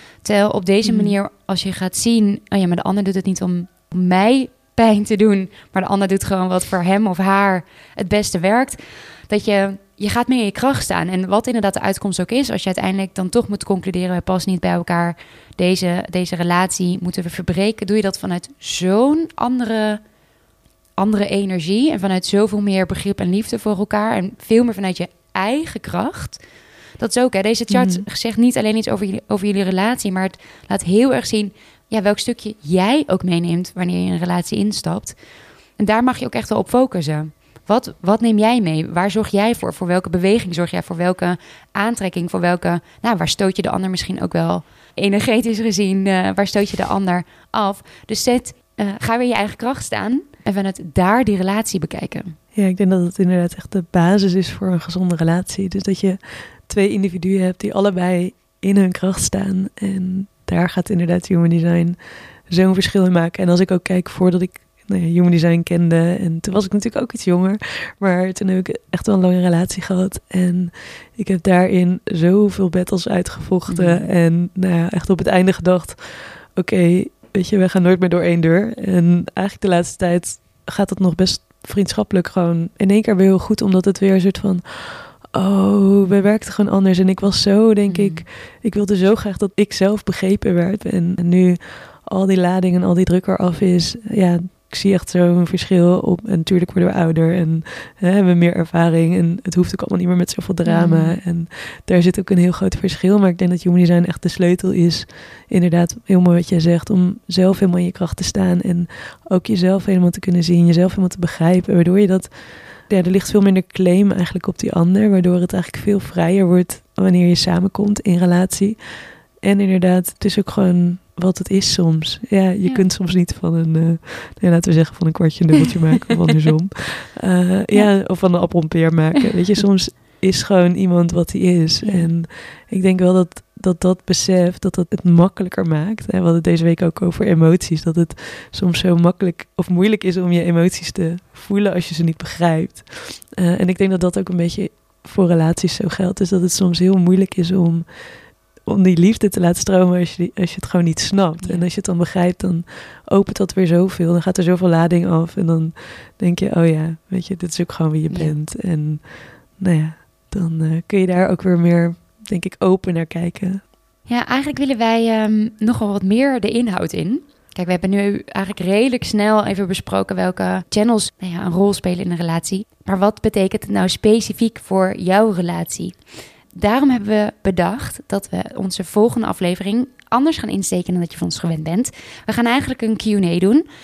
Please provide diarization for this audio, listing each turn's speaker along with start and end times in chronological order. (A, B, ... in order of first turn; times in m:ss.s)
0:00.2-0:20.0 A
0:00.8-0:01.2 B
0:21.0-0:26.4 A
0:27.0-0:35.2 A
0:27.7-0:28.0 B
0:35.8-0:52.4 A
0:52.5-1:02.0 B
1:02.5-2:27.8 B
1:13.7-1:14.1 A
1:27.9-1:28.3 A
1:40.6-1:41.2 A
2:11.8-2:12.1 A
2:28.6-2:43.6 B
2:31.4-2:31.7 A
2:38.1-2:38.4 A
2:44.1-2:56.0 A
2:56.5-3:03.7 A